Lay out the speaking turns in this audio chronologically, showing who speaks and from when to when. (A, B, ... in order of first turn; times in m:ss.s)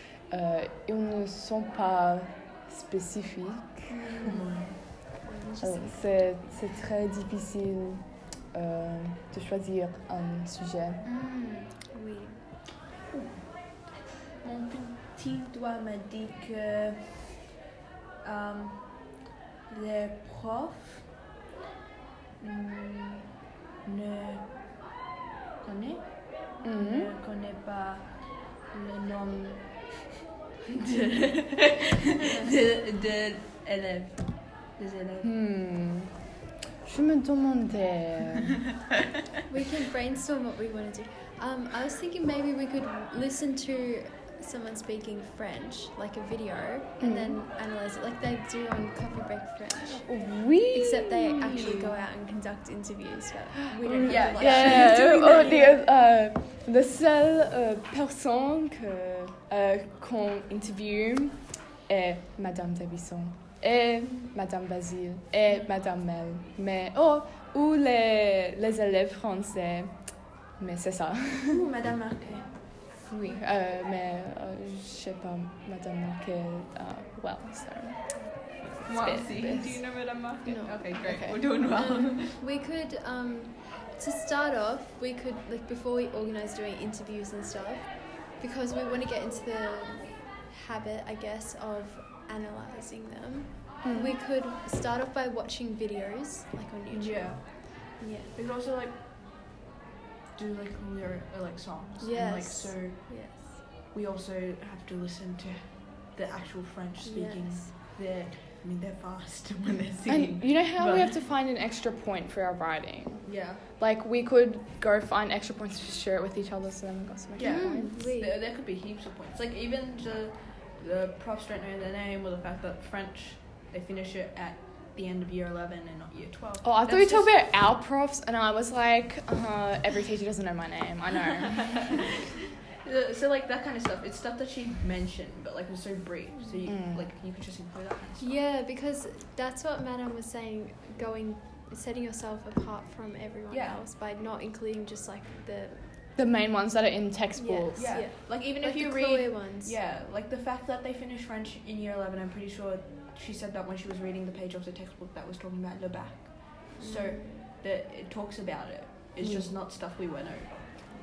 0:00.3-0:04.0 A
0:03.9-0:06.4 B
0:04.2-0:04.8 C
0:05.6-0:11.0 A
0:11.0-0:12.5 B
0:13.1-0:17.3 C
0:18.2-0:21.1 C
0:22.4-0:24.5 C
0:25.6-0:30.0 C
0:26.6-0:27.1 A
0:30.6-0:35.3 C
0:32.3-0:32.6 B
0:35.2-0:36.3 A
0:36.8-0:38.7 A
0:39.5-0:55.8 B
0:47.0-0:47.4 A
0:49.9-0:52.0 A
0:53.8-0:55.5 C
0:54.0-1:10.0 A
1:10.6-1:11.6 A
1:11.5-1:12.6 C
1:13.1-1:19.9 A
1:18.9-1:22.4 C
1:20.4-1:38.3 B
1:21.0-1:21.4 A
1:33.8-1:34.2 A
1:36.9-1:39.0 C
1:40.4-1:51.2 C
1:42.0-1:43.7 B
1:47.0-1:47.8 B
1:50.1-1:58.0 A
1:53.2-1:53.6 C
1:57.4-2:07.4 C
1:57.4-1:58.4 B
2:06.6-2:12.0 A
2:12.8-2:18.3 C
2:16.7-2:17.0 A
2:18.2-2:25.9 B
2:23.5-2:23.8 C
2:26.2-2:28.1 A
2:27.4-2:29.8 B
2:27.8-2:40.7 C
2:36.8-2:37.5 B
2:39.2-2:39.5 A